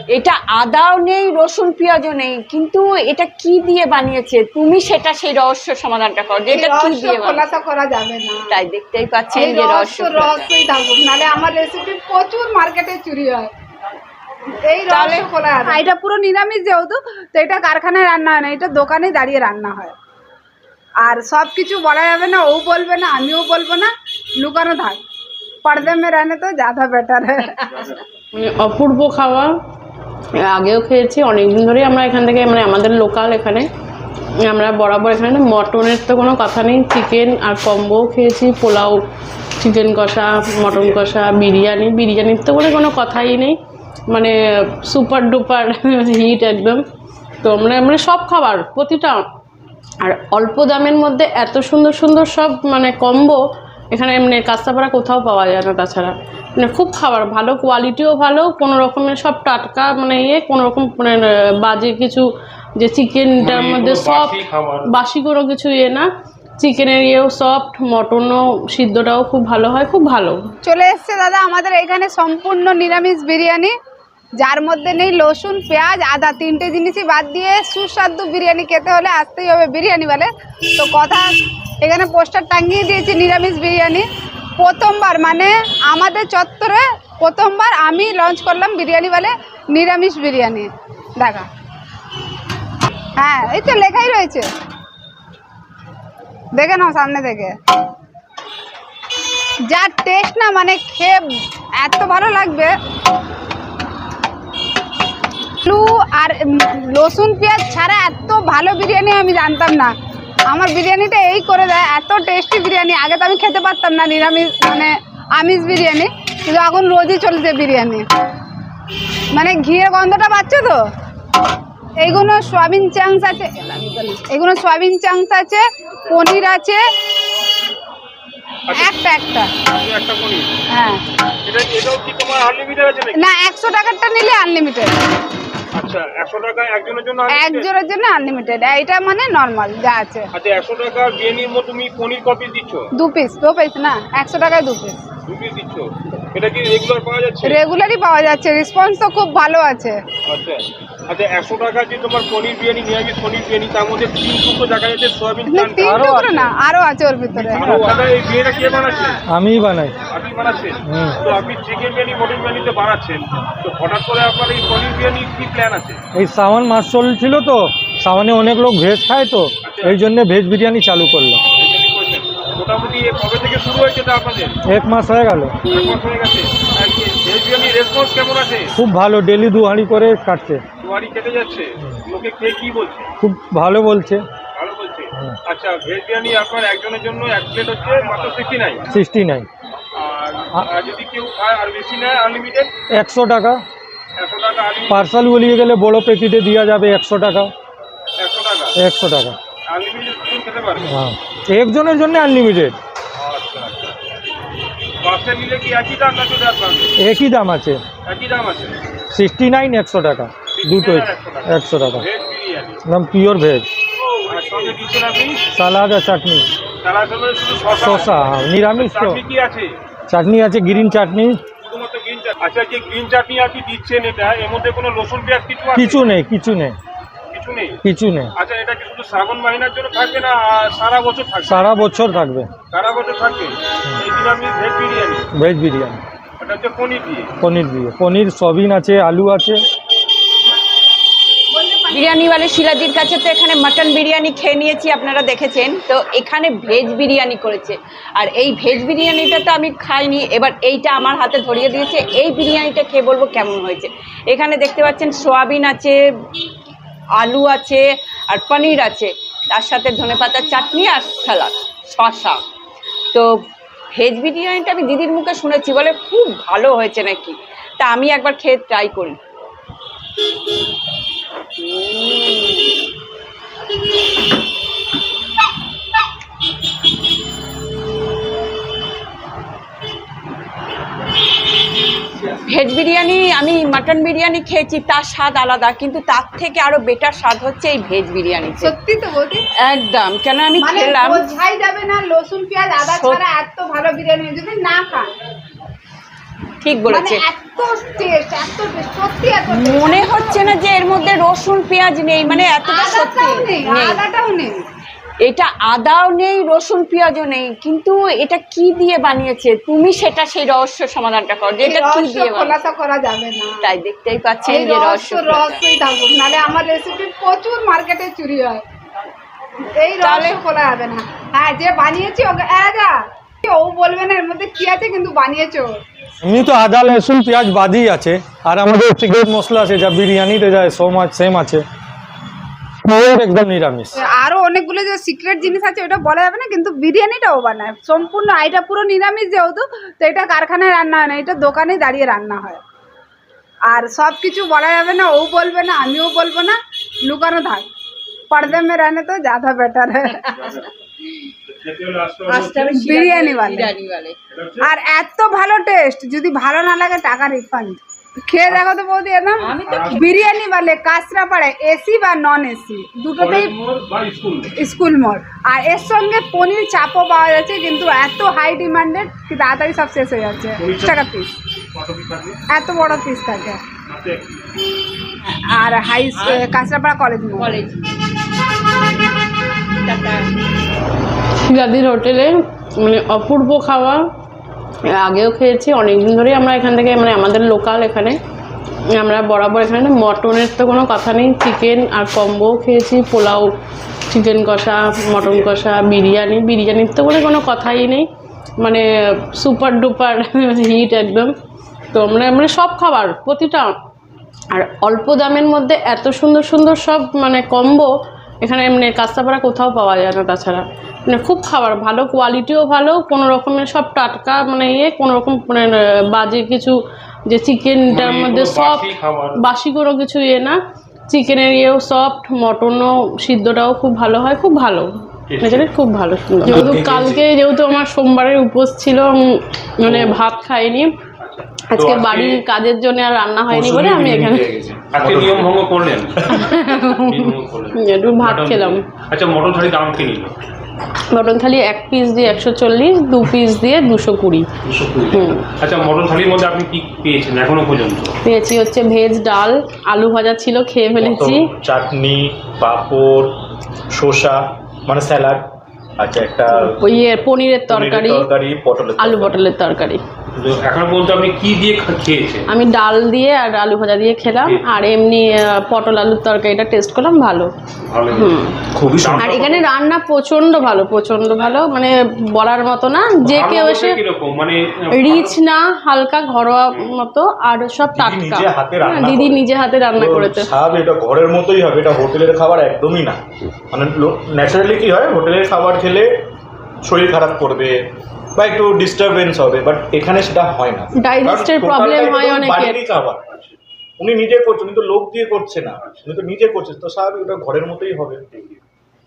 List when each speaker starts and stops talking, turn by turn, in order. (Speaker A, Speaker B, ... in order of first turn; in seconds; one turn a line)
Speaker A: 0.1-7.4
Speaker B: 6.5-8.5
Speaker A: 8.5-10.5
Speaker B: 9.3-13.5
Speaker B: 14.7-19.9
Speaker A: 14.9-15.3
Speaker B: 21.0-25.0
Speaker B: 25.6-27.7
Speaker C: 28.3-29.5
Speaker C: 30.4-33.7
Speaker C: 34.5-39.0
Speaker C: 39.6-43.5
Speaker D: 40.7-41.0
Speaker C: 44.1-46.8
Speaker C: 47.4-49.2
Speaker C: 50.0-53.4
Speaker C: 53.9-62.2
Speaker C: 62.8-66.0
Speaker D: 63.4-65.0
Speaker C: 66.6-70.4
Speaker B: 70.6-73.7
Speaker B: 74.4-81.3
Speaker B: 81.8-84.0
Speaker B: 84.6-91.5
Speaker B: 93.2-94.5
Speaker B: 96.5-97.5
Speaker B: 99.7-101.2
Speaker B: 101.8-102.7
Speaker B: 105.6-109.9
Speaker B: 110.5-118.0
Speaker B: 119.3-120.8
Speaker B: 122.0-126.8
Speaker B: 128.7-129.5
Speaker D: 129.7-130.5
Speaker B: 130.7-131.0
Speaker D: 131.4-133.2
Speaker B: 133.2-134.9
Speaker D: 135.7-137.7
Speaker B: 137.3-140.3
Speaker D: 140.3-142.9
Speaker B: 143.0-145.0
Speaker D: 145.3-147.6
Speaker B: 147.4-150.0
Speaker D: 150.3-156.0
Speaker B: 155.5-157.8
Speaker E: 155.8-156.5
Speaker E: 157.3-157.9
Speaker D: 157.5-159.2
Speaker E: 159.3-160.0
Speaker D: 160.1-166.0
Speaker E: 160.8-161.2
Speaker E: 166.1-171.4
Speaker D: 169.6-170.0
Speaker D: 171.6-174.6
Speaker E: 174.7-175.6
Speaker D: 175.6-178.7
Speaker E: 178.8-180.6
Speaker D: 180.8-183.1
Speaker E: 183.2-184.2
Speaker D: 184.5-188.8
Speaker E: 188.9-189.5
Speaker D: 189.9-192.7
Speaker E: 192.9-193.6
Speaker D: 194.2-195.1
Speaker E: 194.9-197.5
Speaker D: 198.2-198.7
Speaker E: 198.8-199.3
Speaker D: 199.7-200.9
Speaker E: 200.9-202.8
Speaker D: 203.2-203.9
Speaker D: 205.0-206.9
Speaker E: 207.0-207.8
Speaker D: 208.1-208.8
Speaker E: 209.1-212.1
Speaker D: 210.5-212.8
Speaker E: 212.8-213.7
Speaker D: 214.2-215.4
Speaker E: 215.5-216.4
Speaker D: 216.8-219.8
Speaker E: 217.8-219.2
Speaker E: 220.1-221.4
Speaker D: 221.6-226.0
Speaker E: 225.7-226.7
Speaker D: 227.3-227.8
Speaker E: 227.8-228.3
Speaker D: 228.3-231.9
Speaker E: 231.4-232.5
Speaker D: 232.7-235.2
Speaker E: 235.3-236.0
Speaker D: 236.4-237.3
Speaker E: 237.4-239.6
Speaker B: 241.5-242.1
Speaker A: 241.9-255.9
Speaker A: 257.2-262.4
Speaker A: 264.0-269.2
Speaker A: 271.6-272.6
Speaker A: 282.5-288.7
Speaker B: 288.6-289.4
Speaker A: 289.6-291.2
Speaker B: 290.6-295.1
Speaker A: 292.8-293.2
Speaker A: 296.6-297.2
Speaker B: 296.9-300.4
Speaker A: 299.5-304.0
Speaker B: 302.3-304.6
Speaker A: 305.2-312.6
Speaker B: 311.6-313.6
Speaker A: 313.6-315.6
Speaker B: 314.4-318.6
Speaker B: 319.8-325.8
Speaker A: 320.0-320.4
Speaker E: 326.2-331.6
Speaker E: 332.8-333.9
Speaker B: 333.9-342.6
Speaker B: 343.6-347.6
Speaker B: 348.3-350.2
Speaker D: 350.3-350.7
Speaker D: 351.5-352.8
Speaker A: 352.3-354.1
Speaker B: 352.7-353.7
Speaker D: 354.3-354.7
Speaker B: 354.6-357.8
Speaker B: 358.3-363.5
Speaker A: 359.4-360.0
Speaker D: 359.6-360.1
Speaker D: 363.2-364.6
Speaker B: 364.6-371.3
Speaker D: 370.6-371.0
Speaker D: 371.7-372.4
Speaker B: 372.5-373.6
Speaker D: 373.9-374.5
Speaker B: 375.2-377.6
Speaker A: 376.2-376.4
Speaker A: 377.4-378.0
Speaker A: 379.9-380.2
Speaker C: 381.5-384.0
Speaker C: 384.9-388.2
Speaker C: 388.9-393.5
Speaker C: 394.1-398.1
Speaker C: 399.4-401.3
Speaker C: 401.9-403.7
Speaker C: 404.5-407.9
Speaker C: 408.4-416.7
Speaker C: 417.3-420.6
Speaker D: 417.9-419.5
Speaker C: 421.1-424.9
Speaker D: 425.3-425.7
Speaker C: 425.4-430.9
Speaker F: 426.4-427.2
Speaker D: 429.8-430.2
Speaker D: 431.2-432.4
Speaker C: 431.7-434.4
Speaker F: 433.5-435.6
Speaker D: 434.9-440.3
Speaker F: 436.2-436.6
Speaker C: 436.4-438.8
Speaker C: 441.1-444.5
Speaker D: 444.6-448.1
Speaker C: 445.1-445.4
Speaker C: 448.2-451.4
Speaker F: 451.0-453.4
Speaker F: 453.9-455.5
Speaker F: 456.0-457.0
Speaker C: 456.5-458.3
Speaker F: 457.7-459.4
Speaker C: 459.0-460.0
Speaker D: 460.4-462.5
Speaker C: 462.5-467.5
Speaker D: 467.9-468.4
Speaker C: 468.1-468.5
Speaker F: 468.7-469.5
Speaker D: 469.0-469.7
Speaker C: 469.2-474.0
Speaker D: 473.2-475.4
Speaker C: 474.9-480.5
Speaker F: 477.9-483.2
Speaker F: 483.7-486.2
Speaker F: 486.8-493.2
Speaker C: 491.0-492.8
Speaker D: 493.3-493.6
Speaker F: 494.0-498.2
Speaker D: 495.8-496.1
Speaker D: 498.3-498.6